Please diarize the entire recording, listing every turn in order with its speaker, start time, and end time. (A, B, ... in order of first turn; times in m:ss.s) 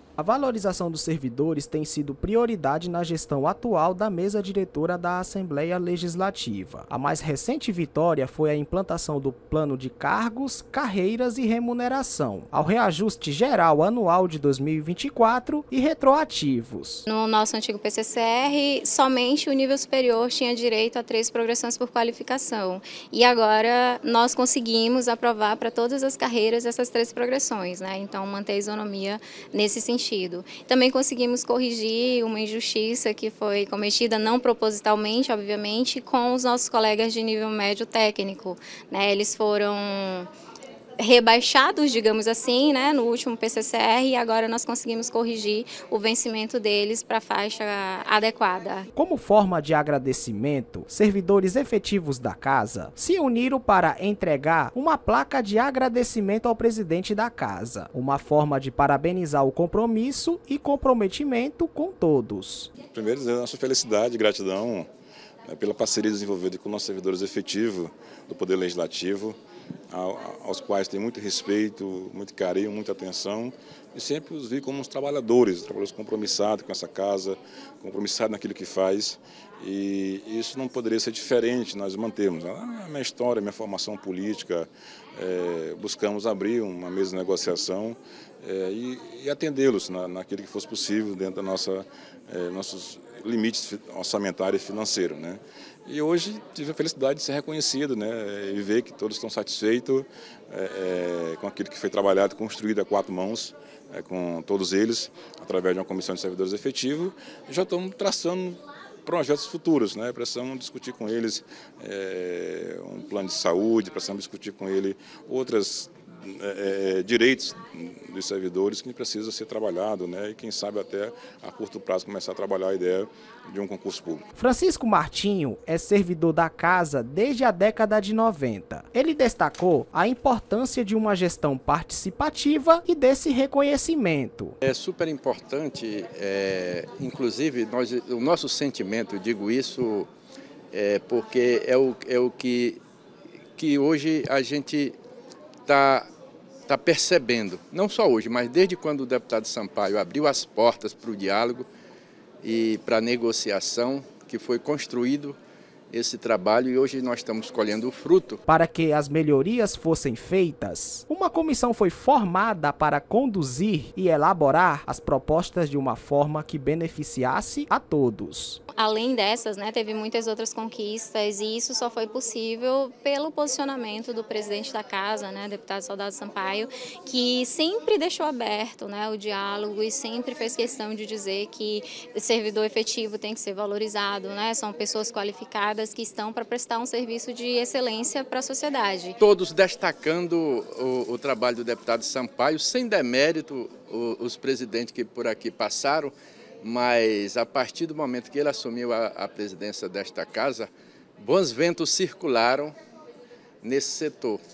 0:00.2-0:17.1 A
0:17.1-0:40.3 B
0:41.0-0:48.9 B
0:49.0-1:02.7 A
1:02.9-1:04.9 C
1:05.4-1:09.4 C
1:09.9-2:04.2 C
2:04.4-2:14.6 A
2:14.6-2:20.1 D
2:20.7-2:22.8 D
2:23.6-2:25.0 D
2:25.7-2:26.1 D
2:26.7-2:31.7 D
2:32.4-2:35.4 D
2:35.9-2:38.4 D
2:38.5-2:48.6 A
2:48.7-3:09.2 B
3:09.2-3:22.8 D
3:23.6-3:24.4 D